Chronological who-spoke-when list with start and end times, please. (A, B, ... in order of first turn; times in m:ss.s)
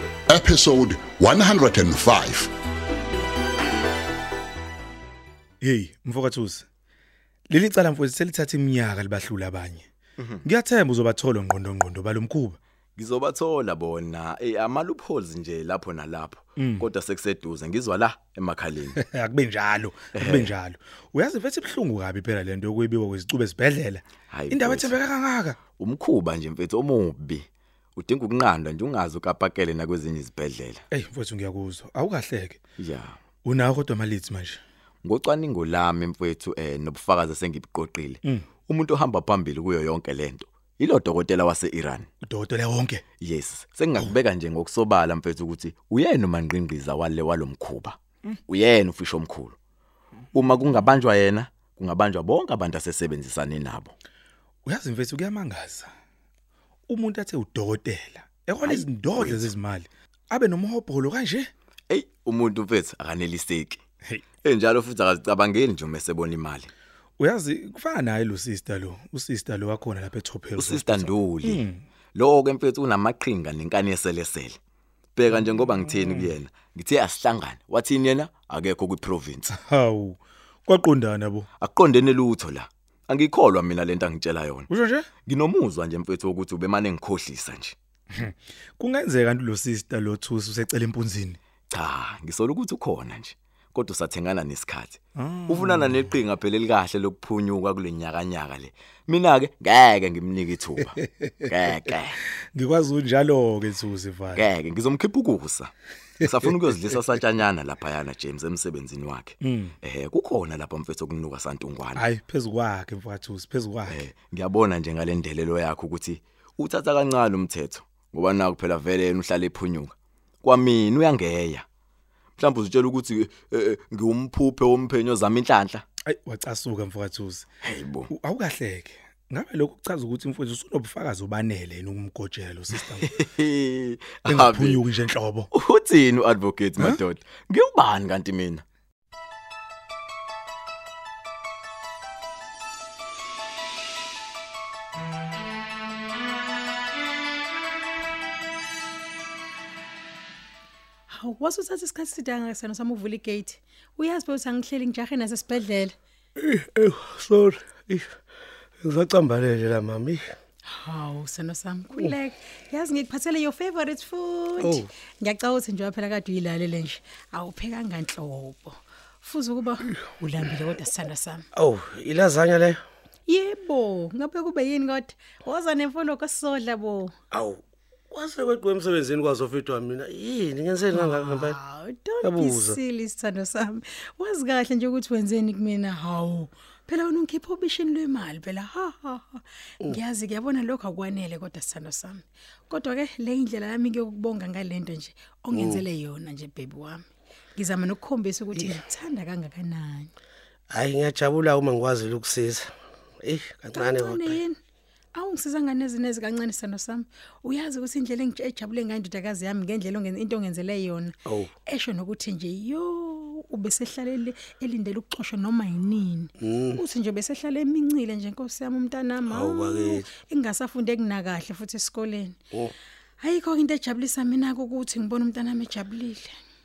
0:00.3-0:02.5 A
0:05.6-0:06.6 B
0:07.5-0:09.9 B
0:10.2-0:10.4 C
0:10.4-0:12.6 B
0:13.0-0:19.0 C
0:16.6-0:16.9 B
0:19.0-0:25.6 B
0:20.2-0:20.5 C
0:24.3-0:25.0 C
0:25.8-0:27.4 C
0:28.0-0:30.8 C
0:30.9-0:32.6 B
0:32.8-0:33.2 C
0:33.4-0:34.6 B
0:35.0-0:42.1 C
0:42.2-0:43.0 B
0:43.2-0:48.0 C
0:48.5-0:49.6 C
0:50.3-0:53.9 C
0:50.4-0:50.8 B
0:54.6-0:55.9 B
0:56.9-1:01.5 B
0:58.6-0:59.5 C
1:01.9-1:03.8 C
1:04.4-1:06.7 C
1:07.2-1:11.8 B
1:10.6-1:11.6 C
1:12.1-1:14.6 C
1:15.1-1:19.5 C
1:15.4-1:16.3 B
1:19.5-1:21.5 B
1:21.6-1:24.7 C
1:24.7-1:25.1 B
1:25.2-1:27.7 C
1:28.1-1:31.4 B
1:31.7-1:42.2 C
1:35.2-1:36.1 B
1:41.0-1:41.5 B
1:42.5-1:44.4 B
1:44.3-1:52.0 C
1:49.4-1:49.7 B
1:51.9-1:54.0 B
1:53.9-2:01.6 C
2:02.4-2:05.8 C
2:06.0-2:07.5 B
2:07.6-2:08.1 C
2:08.1-2:13.1 B
2:13.0-2:14.8 C
2:14.2-2:15.5 B
2:15.5-2:18.6 C
2:31.1-2:36.0 D
2:36.4-2:38.1 E
2:38.8-2:40.2 E
2:40.7-2:51.4 D
2:44.6-2:44.9 E
2:51.5-2:52.8 E
2:53.3-2:57.1 D
2:57.3-2:57.6 E
2:58.1-3:01.6 E
3:00.9-3:20.1 D
3:02.2-3:02.8 E
3:15.5-3:15.8 E
3:20.7-3:22.7 E
3:23.2-3:24.4 E
3:23.7-3:24.6 D
3:25.1-3:42.4 D
3:36.4-3:36.8 E
3:39.3-3:40.1 E
3:43.2-3:46.3 D